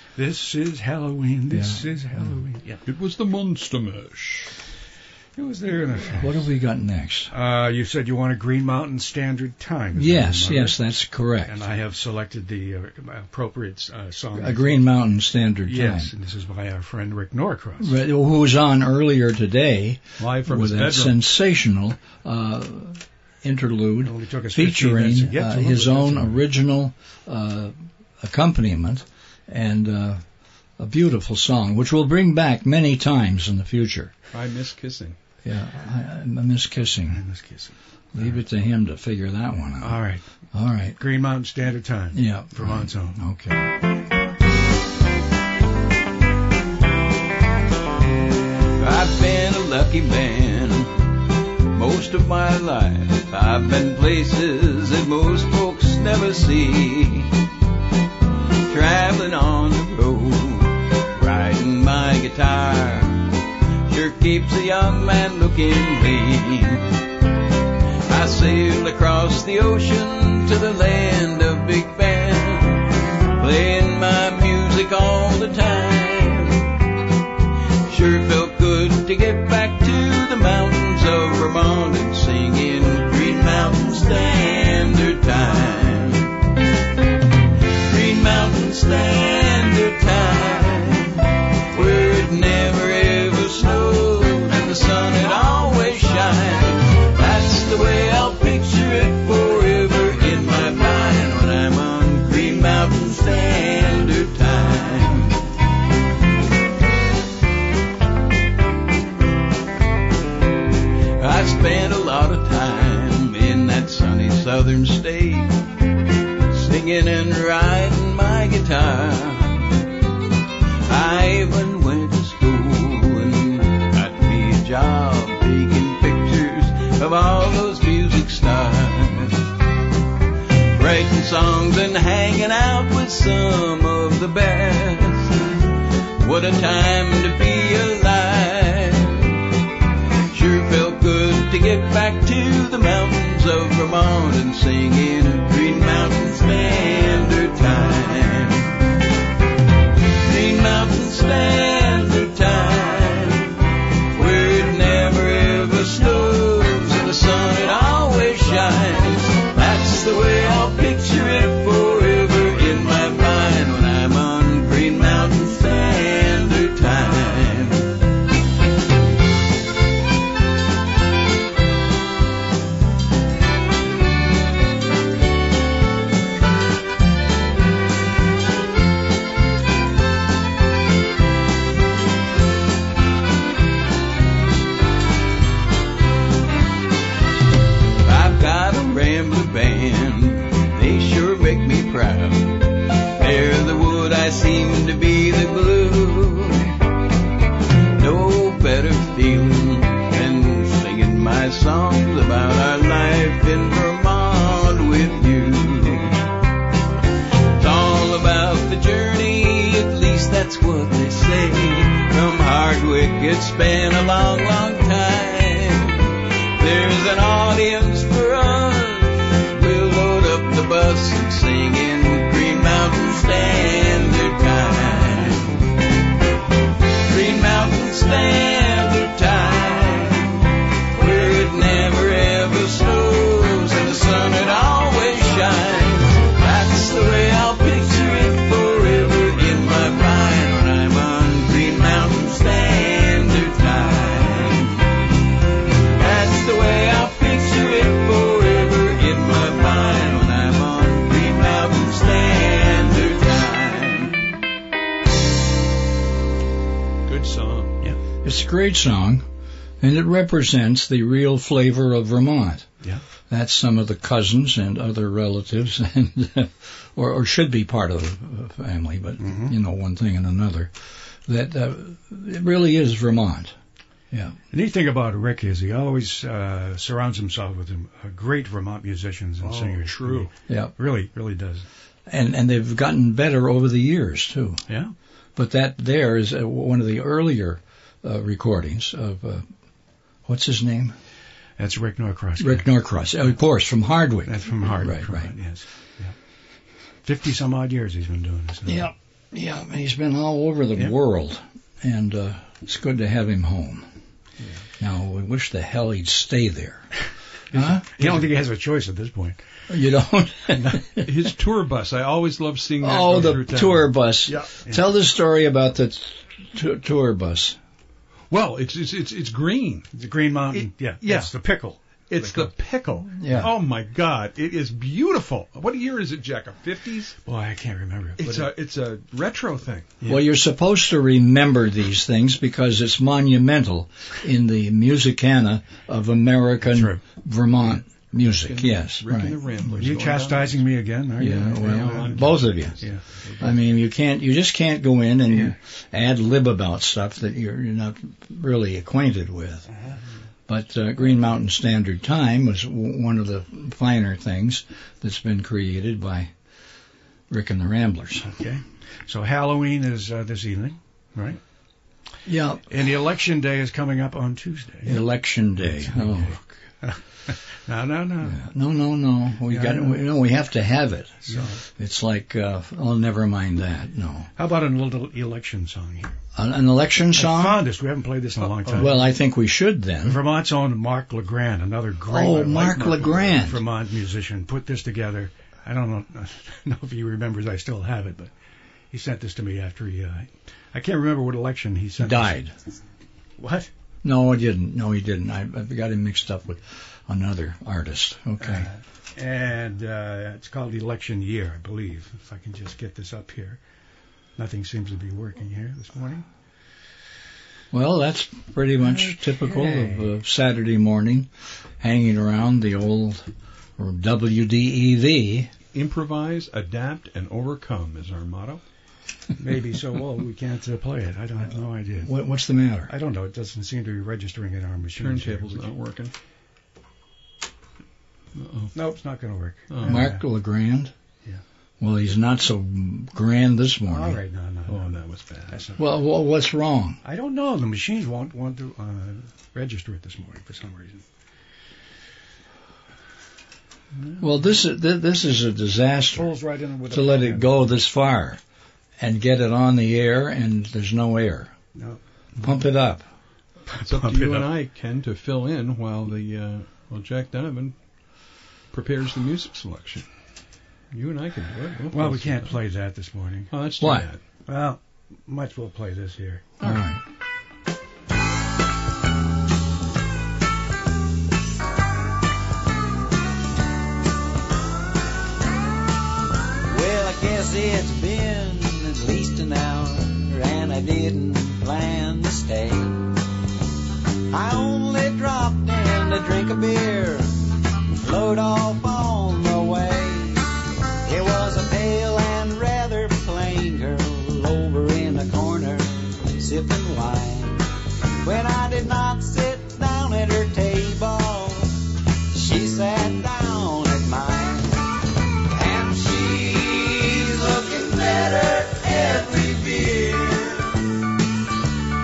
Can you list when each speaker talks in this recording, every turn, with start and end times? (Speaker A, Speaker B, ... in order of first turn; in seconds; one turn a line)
Speaker A: 0.2-2.8
Speaker B: 1.5-2.3
Speaker C: 2.9-4.5
Speaker A: 5.4-6.4
Speaker B: 6.1-7.3
Speaker A: 7.3-10.8
Speaker B: 9.9-11.6
Speaker A: 11.4-14.9
Speaker B: 14.3-16.1
Speaker A: 15.7-18.0
Speaker B: 17.8-30.2
Speaker C: 20.2-21.2
Speaker A: 24.0-26.4
Speaker B: 30.8-34.1
Speaker C: 34.3-35.2
Speaker B: 35.4-37.2
Speaker A: 37.1-38.3
Speaker B: 38.1-40.0
Speaker A: 39.8-40.2
Speaker B: 40.5-41.0
Speaker A: 41.0-43.2
Speaker B: 42.1-43.8
Speaker D: 48.8-50.9
Speaker D: 51.7-57.3
Speaker D: 58.7-63.3
Speaker D: 63.9-66.8
Speaker D: 68.1-76.7
Speaker D: 77.9-86.4
Speaker D: 87.9-105.4
Speaker D: 111.2-115.6
Speaker D: 116.5-119.8
Speaker D: 120.9-129.4
Speaker D: 130.7-135.6
Speaker D: 136.2-139.4
Speaker D: 140.3-148.8
Speaker D: 150.2-153.6
Speaker D: 154.1-167.9
Speaker D: 188.0-196.7
Speaker D: 197.9-206.2
Speaker D: 207.6-225.6
Speaker D: 227.1-244.9
Speaker D: 246.0-254.3
Speaker C: 257.1-257.8
Speaker B: 258.2-259.2
Speaker B: 259.8-262.7
Speaker B: 263.3-273.6
Speaker A: 269.2-269.6
Speaker B: 274.1-274.4
Speaker A: 274.5-281.7
Speaker C: 279.4-280.3
Speaker B: 280.5-280.7
Speaker B: 282.1-284.6
Speaker B: 285.4-289.4
Speaker B: 290.3-290.9
Speaker A: 291.6-292.7
Speaker B: 292.4-295.3
Speaker A: 294.3-296.1
Speaker A: 297.1-298.9
Speaker B: 298.7-303.9
Speaker B: 304.8-306.9
Speaker A: 307.5-309.4
Speaker B: 307.5-308.2
Speaker B: 309.7-311.3
Speaker C: 311.0-314.5
Speaker B: 312.8-317.6
Speaker C: 318.3-319.9
Speaker A: 319.9-322.5
Speaker C: 320.5-321.3
Speaker C: 322.1-327.2
Speaker B: 323.2-323.5
Speaker A: 327.2-328.5
Speaker C: 328.2-330.0
Speaker B: 330.1-339.7
Speaker A: 336.7-337.0
Speaker C: 338.3-340.6
Speaker A: 339.8-343.0
Speaker B: 341.2-342.8
Speaker C: 341.6-343.6
Speaker B: 343.4-349.7
Speaker A: 345.3-345.6
Speaker B: 350.5-356.3
Speaker B: 357.3-358.3
Speaker A: 358.3-361.4
Speaker B: 362.3-362.7
Speaker A: 362.7-365.1
Speaker B: 364.8-366.4
Speaker A: 365.6-368.4
Speaker B: 368.2-374.3
Speaker A: 369.5-370.0
Speaker A: 371.3-371.6
Speaker A: 374.4-376.1
Speaker B: 376.4-377.7
Speaker A: 377.2-379.0
Speaker C: 378.6-378.9
Speaker B: 378.7-380.2
Speaker A: 380.0-388.3
Speaker B: 382.1-383.6
Speaker A: 388.9-392.4
Speaker B: 392.0-392.5
Speaker A: 393.4-393.7
Speaker B: 394.0-398.7
Speaker A: 398.4-403.6
Speaker A: 404.4-406.2
Speaker B: 407.7-411.3
Speaker A: 409.0-410.1
Speaker B: 411.8-415.5
Speaker C: 415.7-418.6
Speaker A: 419.4-422.1
Speaker B: 422.0-422.9
Speaker A: 422.9-425.7
Speaker C: 424.9-426.1
Speaker C: 428.4-428.7
Speaker A: 428.7-430.2
Speaker C: 429.7-430.0
Speaker B: 429.9-430.9
Speaker B: 431.8-434.2
Speaker A: 433.9-434.9
Speaker C: 434.7-435.6
Speaker A: 435.5-435.9
Speaker B: 435.8-437.0
Speaker A: 437.0-441.0
Speaker A: 444.0-444.2
Speaker B: 444.2-446.3
Speaker A: 446.1-447.8
Speaker B: 446.9-448.4
Speaker B: 449.0-451.5
Speaker B: 452.4-453.0
Speaker A: 453.7-454.5
Speaker C: 453.8-457.8
Speaker C: 458.7-460.1
Speaker C: 460.9-462.6
Speaker A: 461.9-463.5
Speaker C: 463.5-464.2
Speaker B: 463.8-464.1
Speaker A: 464.5-466.6
Speaker B: 466.6-467.0
Speaker E: 476.7-483.1
Speaker E: 484.3-487.3
Speaker E: 488.0-490.5
Speaker E: 491.0-497.6
Speaker E: 498.2-501.8
Speaker E: 502.3-504.9
Speaker E: 505.5-510.8